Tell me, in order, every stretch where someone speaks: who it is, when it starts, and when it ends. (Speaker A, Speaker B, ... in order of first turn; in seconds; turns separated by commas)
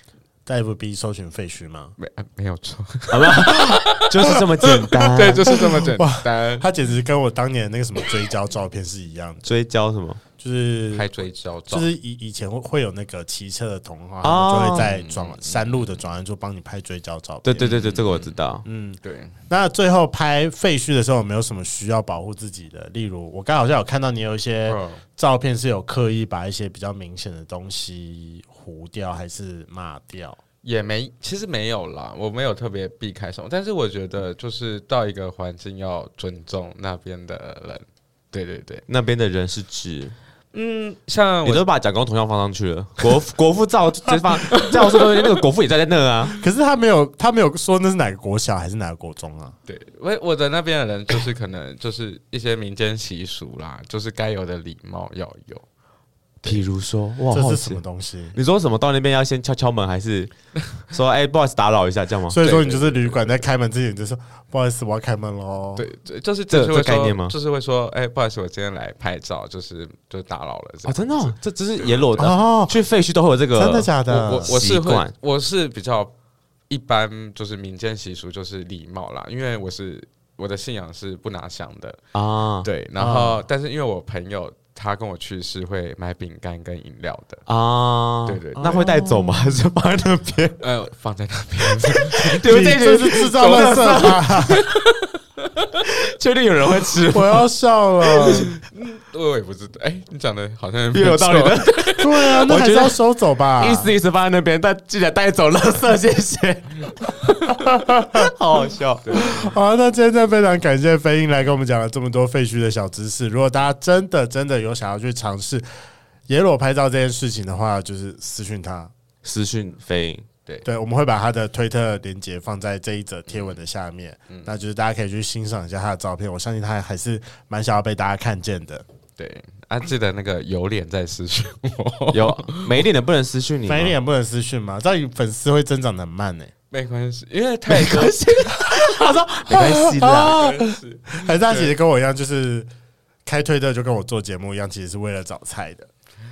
Speaker A: 0.5-1.9, Speaker B: 2.0-6.7, Speaker C: 3.1-5.5, Speaker A: 5.5-9.5, Speaker C: 9.4-10.2, Speaker A: 10.4-17.8, Speaker B: 10.9-11.9, Speaker C: 14.2-14.9, Speaker B: 14.8-15.8, Speaker C: 17.4-18.6, Speaker B: 17.6-18.3, Speaker A: 18.6-30.4, Speaker B: 19.0-19.4, Speaker B: 24.6-25.0, Speaker B: 30.6-38.8, Speaker C: 38.9-40.1, Speaker B: 40.5-41.7, Speaker C: 41.4-46.4, Speaker A: 46.4-49.5, Speaker B: 49.7-55.6, Speaker C: 56.4-57.8, Speaker A: 57.3-58.4, Speaker C: 58.3-62.4, Speaker A: 62.3-65.8, Speaker B: 62.4-63.4, Speaker B: 65.8-72.3, Speaker C: 66.5-67.3, Speaker C: 70.8-75.1, Speaker A: 72.2-72.8, Speaker A: 73.5-74.5, Speaker B: 74.1-76.1, Speaker B: 76.7-82.0, Speaker C: 82.1-82.7, Speaker B: 82.6-87.4, Speaker A: 83.0-83.4, Speaker C: 87.5-90.6, Speaker B: 88.2-88.8, Speaker A: 88.5-89.5, Speaker B: 90.6-92.6, Speaker C: 91.8-94.8, Speaker A: 92.4-94.7, Speaker B: 93.2-94.8, Speaker C: 95.8-97.5, Speaker A: 97.1-98.5, Speaker B: 98.2-102.5, Speaker C: 98.2-98.6, Speaker C: 100.9-103.0, Speaker A: 102.0-103.9, Speaker C: 103.5-106.9, Speaker C: 107.5-109.0, Speaker A: 107.5-108.3, Speaker B: 109.0-109.6, Speaker A: 109.1-115.6, Speaker A: 116.3-118.9, Speaker C: 119.2-120.3, Speaker A: 120.6-128.8, Speaker B: 123.3-123.6, Speaker B: 129.2-132.8, Speaker C: 132.1-133.9, Speaker A: 133.7-136.5, Speaker B: 136.7-138.7, Speaker C: 137.7-140.4, Speaker A: 139.5-142.7, Speaker B: 140.1-141.8, Speaker A: 143.2-145.9